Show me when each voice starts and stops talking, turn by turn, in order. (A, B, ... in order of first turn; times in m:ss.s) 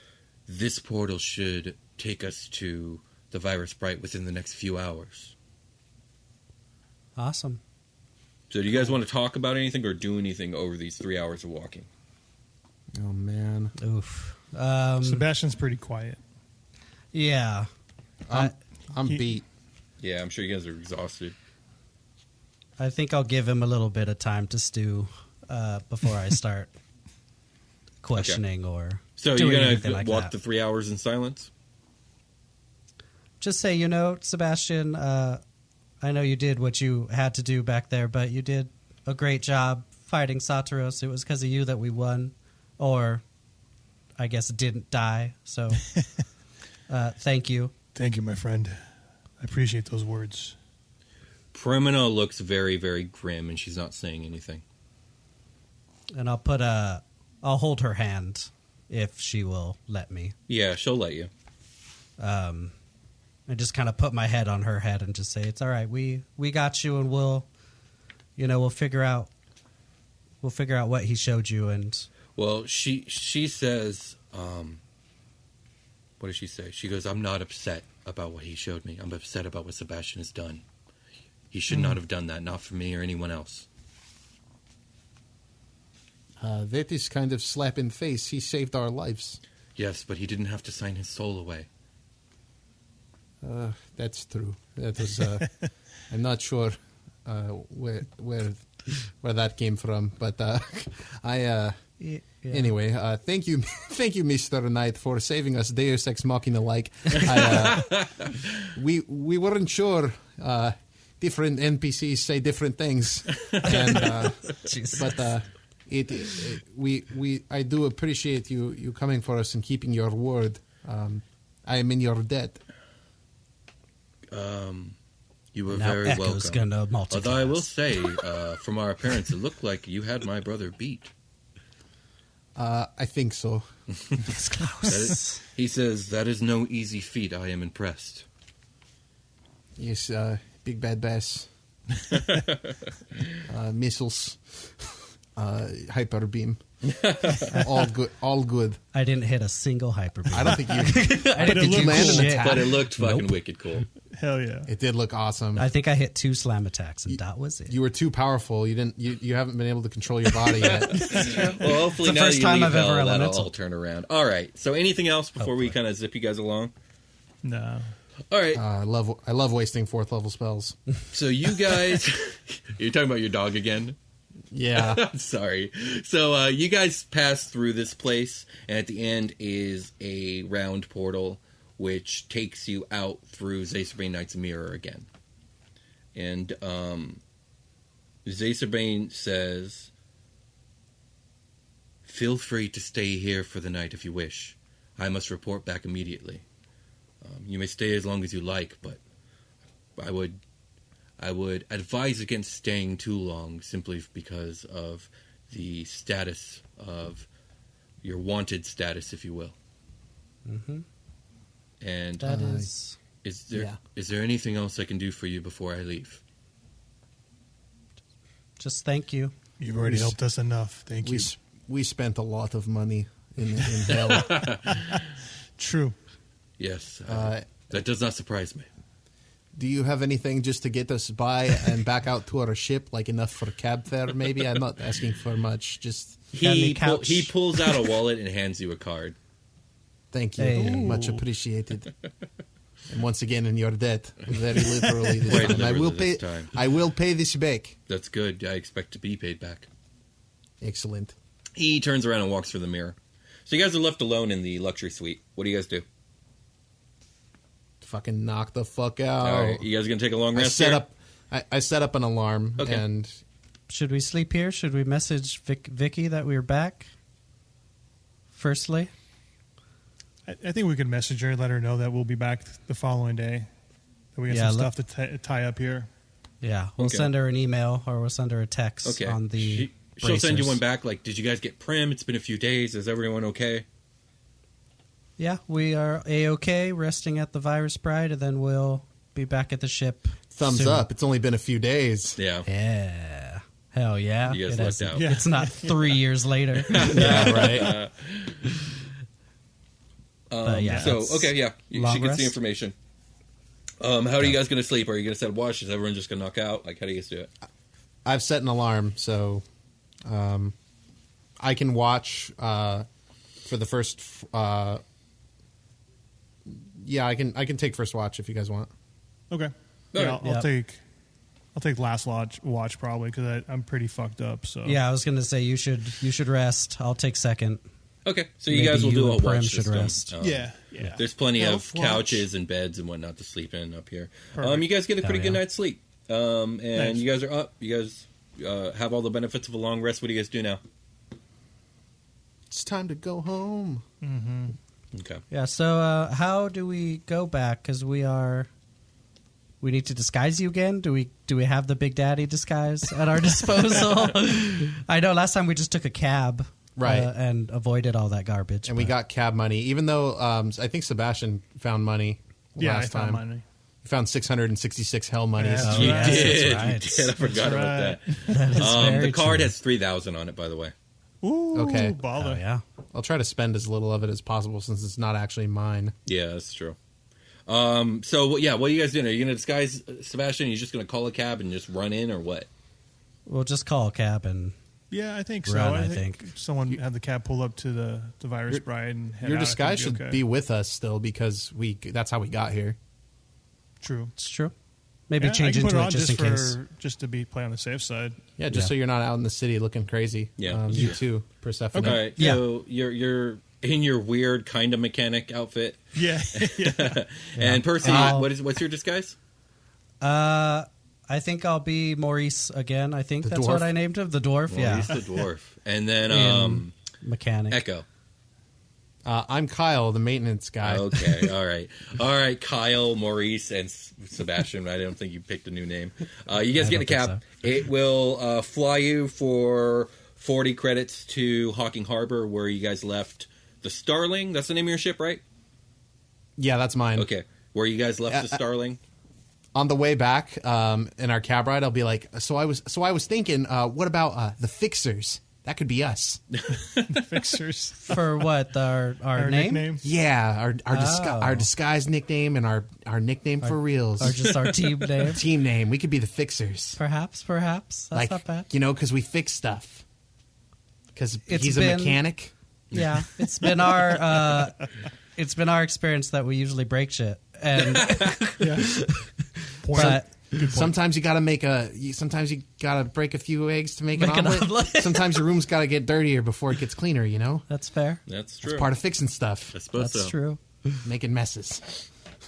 0:00.5-0:05.3 A
0:07.2-0:07.6 B
0:08.5-0:11.9 A
0:12.9-0:13.7 C
0:13.8-0:15.3 B
0:15.0-0:16.2 D
0:17.1-0:17.7 B
0:18.3-0:19.4 C
0:18.3-0:18.5 B
0:20.0-0:21.3 A
0:22.8-0:26.7 B
0:28.0-0:30.3 B
0:28.1-0:28.4 A
0:29.2-0:31.5 A
0:33.4-0:35.4 B
0:36.0-0:43.2 B
0:44.2-0:45.9 B
0:46.9-0:47.7 B
0:47.9-0:48.8 D
0:49.4-0:50.6 D
0:51.5-0:54.6 A
0:56.1-1:00.3 B
1:00.5-1:01.3 A
1:02.2-1:02.7 B
1:03.5-1:07.5 B
1:08.4-1:09.3 B
1:10.4-1:12.1 B
1:12.4-1:14.8 A
1:16.2-1:20.6 A
1:21.5-1:23.7 A
1:26.4-1:29.4 C
1:29.8-1:31.7 A
1:33.4-1:35.5 C
1:36.1-1:38.7 C
1:39.2-1:41.7 C
1:42.0-1:42.7 B
1:42.5-1:48.0 C
1:47.2-1:48.4 A
1:48.7-2:02.6 C
1:53.6-1:55.2 B
2:04.3-2:05.0 A
2:05.5-2:11.1 A
2:05.7-2:07.7 B
2:12.6-2:13.6 C
2:14.2-2:15.4 B
2:14.9-2:18.2 A
2:19.8-2:21.5 C
2:22.1-2:22.7 A
2:23.5-2:26.6 C
2:26.8-2:27.5 A
2:27.4-2:28.8 C
2:28.9-2:33.4 B
2:30.3-2:32.8 C
2:31.3-2:32.4 D
2:32.2-2:33.8 A
2:34.1-2:34.7 D
2:34.7-2:35.7 C
2:35.6-2:37.7 B
2:37.1-2:41.0 C
2:40.8-2:46.7 A
2:40.9-2:43.5 B
2:41.2-2:41.5 D
2:47.4-2:47.9 D
2:48.3-2:48.6 A
2:48.5-2:50.8 C
2:51.1-2:54.0 A
2:54.5-2:55.0 C
2:54.7-3:05.1 A
3:06.1-3:07.2 A
3:08.2-3:09.9 A
3:12.0-3:16.4 A
3:17.2-3:19.0 A
3:20.0-3:20.4 A
3:21.2-3:27.3 A
3:28.0-3:29.5 A
3:30.4-3:30.8 B
3:31.8-3:32.3 A
3:32.2-3:33.0 B
3:32.2-3:32.7 C
3:33.2-3:36.2 A
3:33.5-3:33.8 C
3:38.6-3:39.3 B
3:39.6-3:41.3 D
3:39.8-3:40.1 C
3:41.0-3:44.6 C
3:43.8-3:45.0 D
3:44.1-3:45.0 A
3:45.6-3:45.9 D
3:46.6-3:48.6 A
3:47.1-3:47.5 C
3:49.5-3:56.2 C
3:56.3-3:59.1 A
3:56.4-3:57.3 B
4:00.1-4:01.9 C
4:00.4-4:01.0 B
4:00.6-4:01.2 D
4:02.9-4:07.8 C
4:05.2-4:06.5 A
4:07.9-4:09.7 A
4:10.6-4:11.1 C
4:11.6-4:15.8 A
4:17.8-4:19.6 C
4:19.2-4:20.8 A
4:20.3-4:23.2 C
4:22.6-4:22.8 A
4:23.7-4:26.9 B
4:28.3-4:28.9 B
4:30.2-4:33.5 D
4:34.1-4:35.9 D
4:34.3-4:34.7 B
4:36.4-4:40.6 B
4:36.8-4:37.1 A
4:38.8-4:43.6 A
4:45.2-4:50.8 B
4:50.3-4:52.2 C
4:52.2-4:52.5 A
4:52.4-4:57.7 B
4:54.3-4:55.2 A
4:54.9-4:55.9 D
4:56.6-4:58.5 A
4:56.9-4:57.7 C
5:00.3-5:02.7 A
5:00.4-5:02.4 B
5:00.7-5:00.9 D
5:03.8-5:07.3 A
5:08.0-5:09.4 C
5:10.0-5:10.5 C
5:11.4-5:12.8 C
5:13.4-5:14.8 C
5:16.5-5:18.7 C
5:19.3-5:20.8 D
5:19.9-5:20.2 A
5:20.2-5:20.5 B
5:21.5-5:24.8 D
5:24.6-5:27.6 B
5:28.0-5:40.6 A
5:28.5-5:30.1 B
5:30.2-5:31.0 D
5:31.4-5:32.3 C
5:34.4-5:34.6 D
5:35.0-5:35.4 B
5:36.7-5:37.0 D
5:42.5-5:43.8 C
5:44.0-5:44.5 D
5:44.9-5:45.2 A
5:45.3-5:48.5 B
5:49.6-5:58.9 B
5:56.8-5:57.1 C
5:58.6-6:03.2 C
6:02.6-6:03.4 D
6:03.8-6:06.1 C
6:05.4-6:06.4 D
6:05.6-6:07.1 B
6:05.7-6:10.7 A
6:07.2-6:08.8 D
6:08.3-6:09.5 B
6:11.2-6:12.4 D
6:11.5-6:12.0 C
6:12.1-6:12.6 B
6:12.9-6:15.9 C
6:16.0-6:16.8 A
6:17.5-6:22.5 A
6:23.2-6:24.5 B
6:24.9-6:30.2 D
6:25.4-6:26.2 B
6:29.2-6:32.8 C
6:33.8-6:34.1 D
6:34.2-6:34.5 B
6:35.1-6:36.6 B
6:35.2-6:38.2 D
6:38.4-6:42.1 C
6:40.4-6:41.0 A
6:41.7-6:42.1 D
6:41.8-6:49.2 A
6:42.2-6:42.4 B
6:45.9-6:47.0 D
6:47.3-6:48.3 B
6:47.7-6:48.2 C
6:50.0-6:55.0 B
6:53.2-6:53.7 C
6:54.5-6:56.7 A
6:56.1-6:57.6 B
6:57.5-6:57.8 A
6:59.0-7:01.3 C
7:00.6-7:15.2 A
7:06.6-7:07.2 B
7:16.4-7:17.1 C
7:17.0-7:18.8 A
7:18.1-7:18.4 C
7:19.5-7:26.2 C
7:26.3-7:27.0 A
7:26.8-7:28.2 D
7:27.8-7:29.8 B
7:29.1-7:29.8 D
7:29.8-7:34.3 C
7:30.7-7:31.5 B
7:33.4-7:35.2 B
7:34.0-7:34.9 A
7:35.0-7:36.8 C
7:36.8-7:38.5 B
7:37.9-7:39.8 C
7:40.9-7:42.3 C
7:41.3-7:42.0 B
7:42.7-7:43.1 A
7:42.7-7:44.6 B
7:45.2-7:50.4 B
7:47.6-7:48.5 A
7:48.4-7:48.7 D
7:49.6-7:50.7 D
7:49.7-7:57.4 C
7:54.0-7:55.2 B
7:57.5-7:58.0 B
7:58.1-7:58.7 A
7:58.4-7:59.5 C
7:59.5-8:00.1 A
7:59.8-8:00.8 B
8:00.8-8:01.8 C